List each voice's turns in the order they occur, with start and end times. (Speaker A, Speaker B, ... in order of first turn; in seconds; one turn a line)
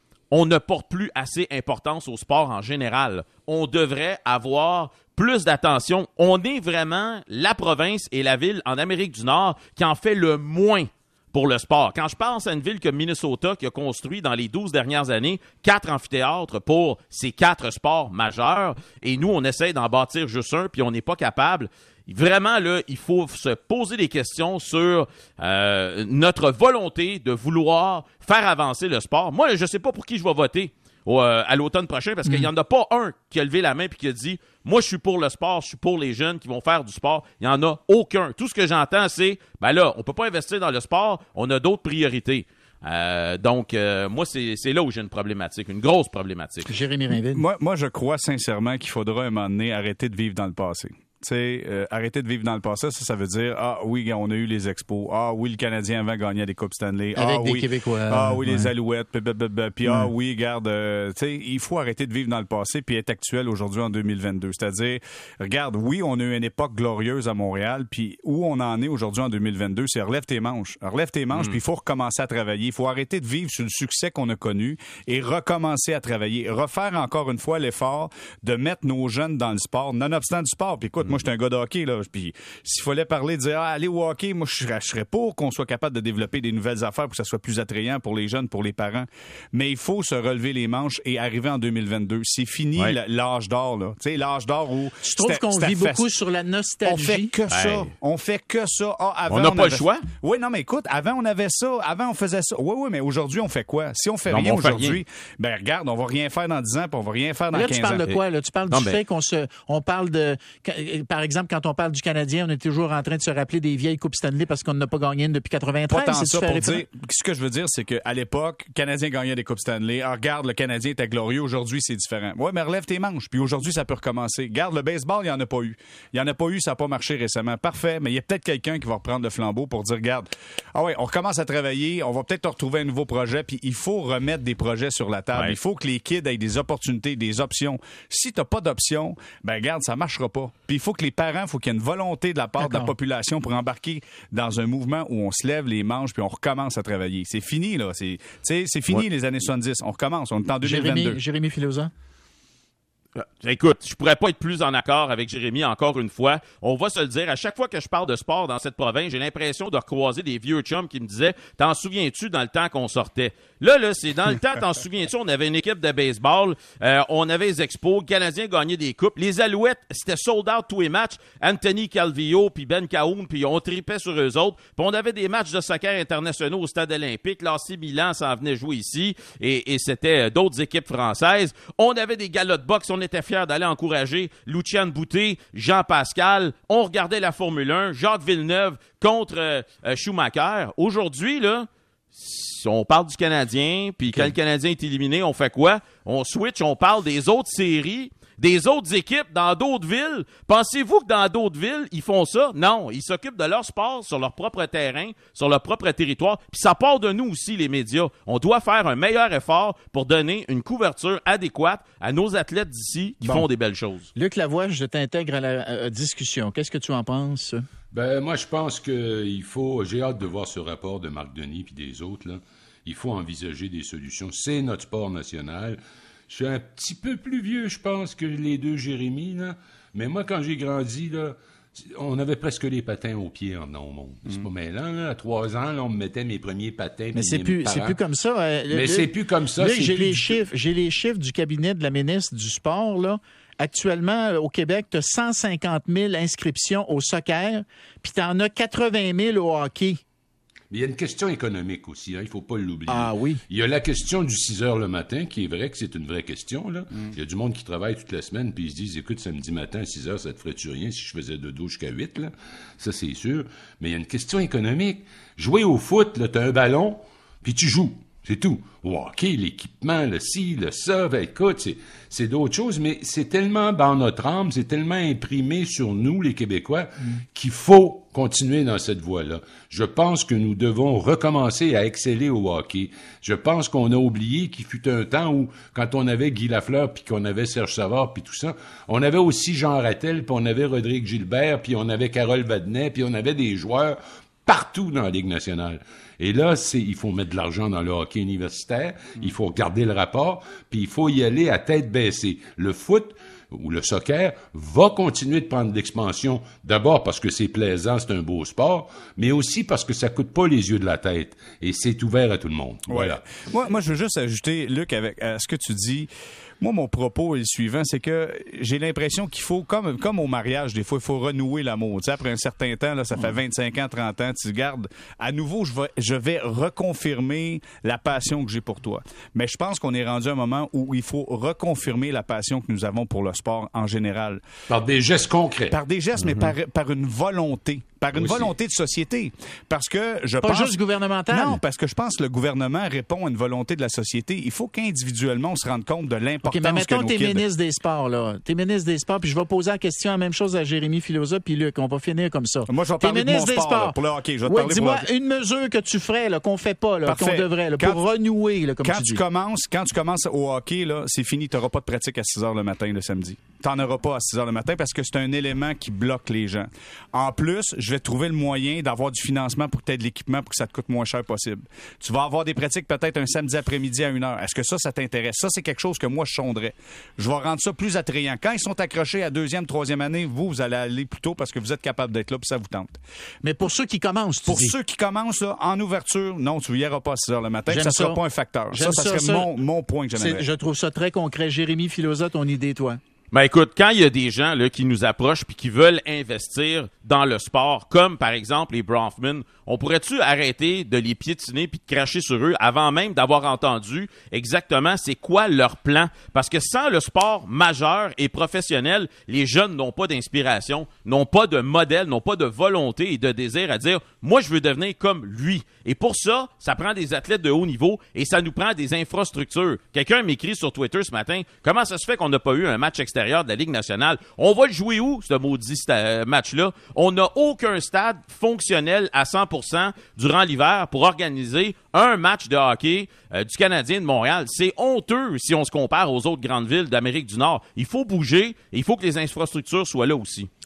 Speaker A: 0.3-46.7
Speaker B: 46.7-47.4
Speaker C: 47.1-96.1
Speaker B: 57.1-58.7
Speaker B: 95.0-97.3
Speaker C: 96.8-108.0
Speaker A: 97.5-97.9
Speaker A: 99.3-100.0
Speaker A: 104.3-105.0
Speaker B: 107.5-116.8
Speaker A: 108.7-109.0
Speaker C: 115.9-151.2
Speaker B: 142.6-142.9
Speaker B: 150.6-151.9
Speaker A: 153.2-214.1
Speaker B: 214.2-217.6
Speaker D: 217.9-225.8
Speaker D: 226.3-238.0
Speaker B: 237.1-250.0
Speaker D: 238.7-240.4
Speaker D: 250.7-313.2
Speaker B: 252.9-253.4
Speaker C: 312.9-316.1
Speaker C: 316.6-334.4
Speaker D: 334.7-335.8
Speaker C: 335.7-340.8
Speaker D: 338.1-338.5
Speaker B: 340.4-341.6
Speaker C: 341.3-347.4
Speaker B: 346.4-359.2
Speaker C: 352.7-355.1
Speaker C: 357.1-358.0
Speaker C: 358.8-383.0
Speaker B: 383.4-384.7
Speaker C: 384.4-390.4
Speaker B: 387.7-388.2
Speaker B: 388.7-389.5
Speaker B: 390.1-393.0
Speaker A: 393.3-440.5